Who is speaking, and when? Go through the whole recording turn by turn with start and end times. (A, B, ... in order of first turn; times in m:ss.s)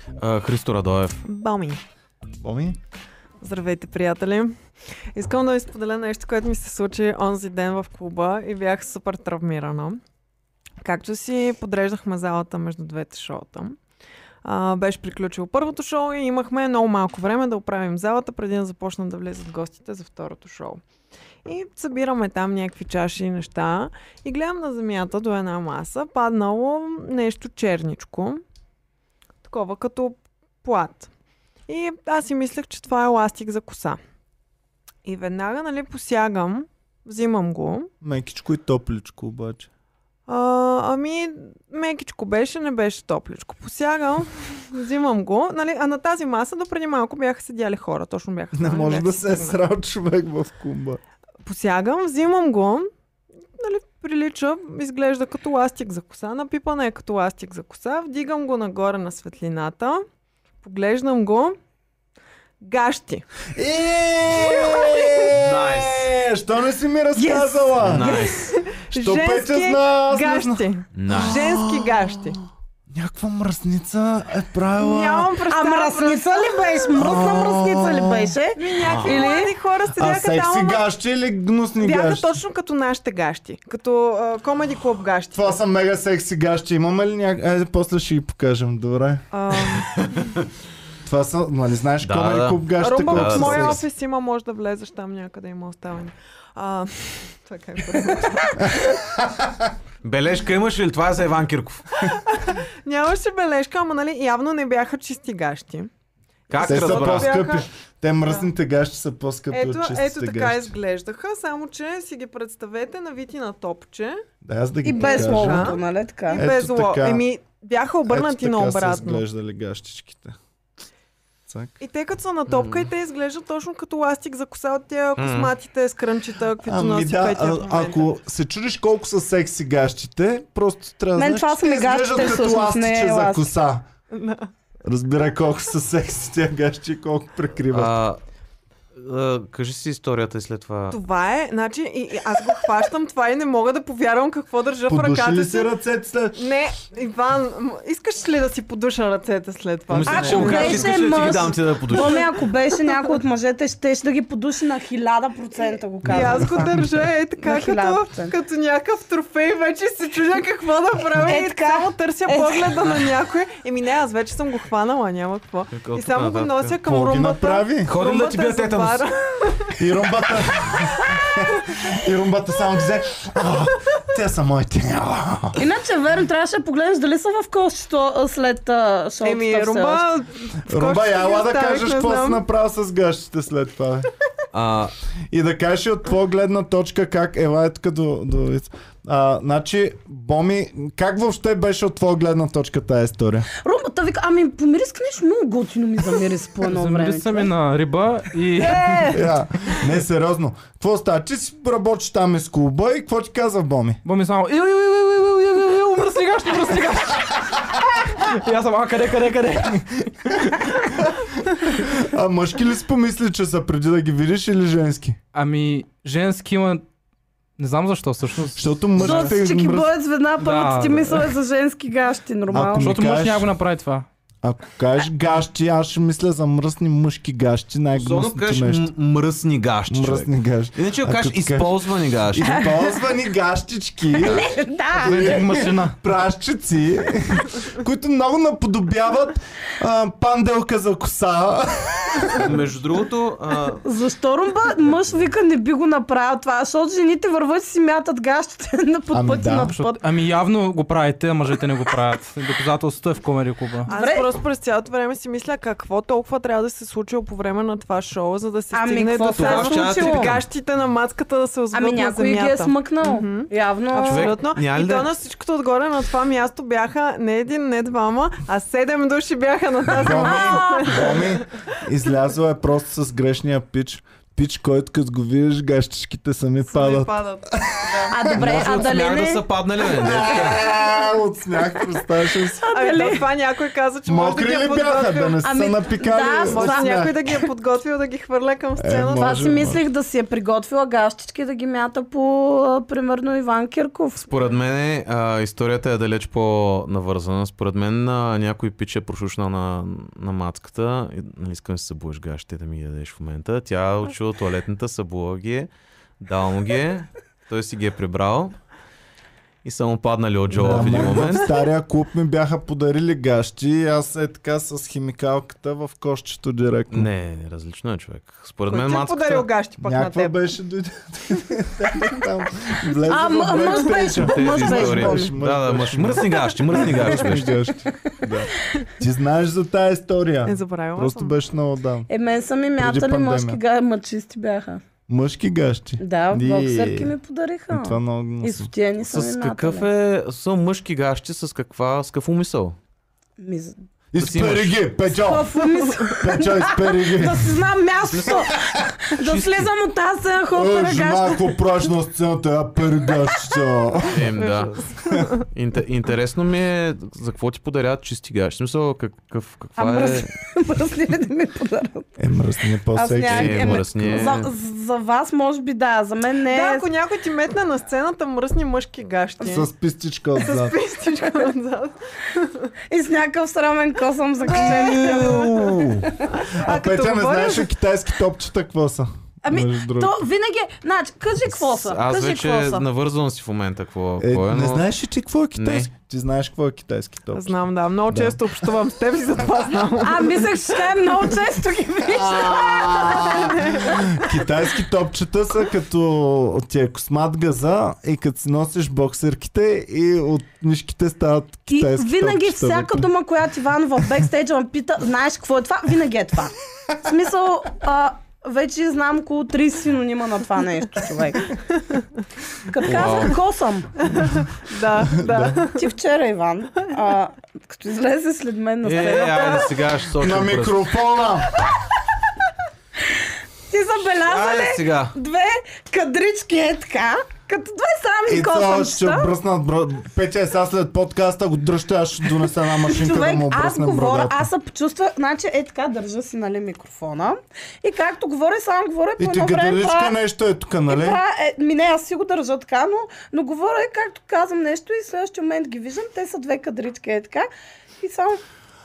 0:00.2-0:01.2 A
0:01.3-0:01.8 B
0:02.4-0:02.8 C
0:03.4-0:04.6 B
0:05.1-0:10.0 B
0:10.8-0:13.8 B
0:14.4-0:20.8 B
0:21.4-0:28.4 B
0:29.4-0:31.1 B
0:31.7-0:34.0 B
0:35.0-0:37.9 B
0:38.0-0:39.7 C
0:40.3-0:49.6 B
0:48.5-0:51.0 C
0:51.4-0:52.9 B
0:53.5-1:00.0 B
1:00.6-1:01.6 B
1:02.6-1:03.3 B
1:03.6-1:08.2 C
1:04.4-1:05.2 B
1:05.3-1:06.1 A
1:07.2-1:08.3 D
1:07.8-1:08.5 A
1:08.0-1:12.4 B
1:08.9-1:12.4 C
1:11.0-1:11.5 A
1:12.9-1:15.3 C
1:14.8-1:17.1 B
1:15.5-1:19.5 D
1:17.0-1:18.3 C
1:18.6-1:20.8 B
1:18.8-1:19.2 A
1:19.9-1:22.4 C
1:21.8-1:25.6 B
1:25.3-1:29.3 C
1:29.3-1:30.2 B
1:31.0-1:33.8 C
1:32.0-1:33.8 A
1:32.8-1:38.9 B
1:38.6-1:39.7 C
1:40.0-1:42.0 A
1:42.0-1:45.9 B
1:46.5-1:47.4 A
1:46.5-1:47.6 B
1:46.6-1:50.7 C
1:49.5-1:54.2 B
1:54.4-1:55.8 C
1:54.8-1:56.4 D
1:55.0-1:59.2 B
1:56.4-1:57.2 C
1:58.1-2:00.4 C
2:01.8-2:08.1 B
2:02.5-2:02.9 A
2:05.2-2:05.5 A
2:06.6-2:13.9 C
2:11.2-2:13.5 D
2:14.1-2:14.5 B
2:14.8-2:18.0 C
2:17.7-2:18.2 A
2:19.0-2:21.0 A
2:20.9-2:25.7 B
2:24.9-2:26.5 C
2:26.4-2:33.2 B
2:29.9-2:32.3 A
2:30.1-2:36.8 D
2:36.0-2:49.9 B
2:37.4-2:38.3 D
2:41.1-2:42.9 D
2:45.7-2:46.8 A
2:46.8-2:47.9 C
2:47.9-2:49.1 A
2:49.8-2:55.6 C
2:55.6-3:00.0 D
2:59.2-3:02.4 B
3:00.7-3:04.1 C
3:04.5-3:04.9 A
3:05.3-3:13.5 C
3:13.6-3:17.5 D
3:16.6-3:19.2 E
3:18.6-3:19.3 B
3:19.1-3:24.0 C
3:24.0-3:30.6 E
3:30.2-3:35.2 C
3:35.3-3:36.8 E
3:37.6-3:39.4 E
3:38.6-3:39.9 C
3:39.0-3:43.0 D
3:40.4-3:41.4 E
3:42.5-3:43.5 C
3:42.7-3:44.1 E
3:44.4-3:48.9 C
3:48.0-3:52.6 A
3:49.9-4:02.5 C
3:54.2-3:55.5 D
3:55.0-3:55.9 A
4:02.4-4:03.8 A
4:03.8-4:10.0 D
4:09.1-4:09.8 C
4:09.8-4:13.9 E
4:13.9-4:31.4 B
4:13.9-4:14.3 D
4:18.7-4:20.4 D
4:19.4-4:20.4 A
4:21.7-4:24.4 D
4:24.0-4:25.1 A
4:29.9-4:38.8 C
4:30.2-4:31.1 D
4:36.7-4:37.5 B
4:38.1-4:40.7 D
4:38.4-4:40.6 A
4:39.9-4:42.7 C
4:42.6-4:43.3 D
4:42.7-4:45.4 B
4:44.1-4:47.2 C
4:45.4-4:47.0 D
4:46.5-4:49.4 B
4:48.8-4:49.8 C
4:49.2-4:54.3 D
4:54.3-5:08.6 A
5:09.6-5:11.5 A
5:10.5-5:11.5 B
5:10.6-5:17.1 C
5:16.9-5:19.5 A
5:18.7-5:20.4 B
5:19.8-5:32.1 C
5:23.1-5:25.3 D
5:24.2-5:27.6 A
5:30.5-5:31.4 B
5:32.1-5:34.8 D
5:32.8-5:33.6 C
5:35.1-5:37.1 C
5:36.0-5:39.9 D
5:37.7-5:38.7 C
5:39.1-5:42.8 A
5:43.4-5:43.8 D
5:44.1-5:45.6 C
5:44.2-5:44.9 A
5:45.2-5:51.6 D
5:45.8-5:46.1 B
5:46.1-5:47.6 C
5:48.1-5:48.5 A
5:49.2-5:49.7 A
5:50.5-5:54.3 C
5:54.1-5:54.8 A
5:54.4-5:55.2 B
5:55.4-6:00.3 A
5:59.8-6:02.1 D
6:02.2-6:04.3 C
6:03.0-6:06.9 D
6:03.3-6:04.5 A
6:06.5-6:09.7 B
6:09.4-6:10.8 C
6:10.4-6:12.7 B
6:12.9-6:16.3 D
6:14.4-6:15.5 B
6:14.5-6:20.2 C
6:16.3-6:17.7 B
6:19.4-6:22.9 D
6:21.8-6:24.8 A
6:24.2-6:27.6 C
6:25.6-6:25.9 A
6:27.3-6:30.7 B
6:28.1-6:28.7 C
6:30.0-6:33.5 D
6:32.1-6:43.1 C
6:33.2-6:34.3 B
6:41.7-6:51.5 D
6:52.7-6:54.1 D
6:52.8-6:53.4 A
6:54.2-6:55.9 B
6:55.1-6:55.6 C
6:55.7-6:59.7 D
6:58.8-7:00.8 A
6:59.0-6:59.7 B
7:00.2-7:01.5 C
7:03.7-7:09.3 D
7:04.2-7:05.2 A
7:08.3-7:14.5 C
7:12.9-7:20.2 D
7:19.2-7:21.2 C
7:20.9-7:27.5 D
7:28.0-7:28.4 D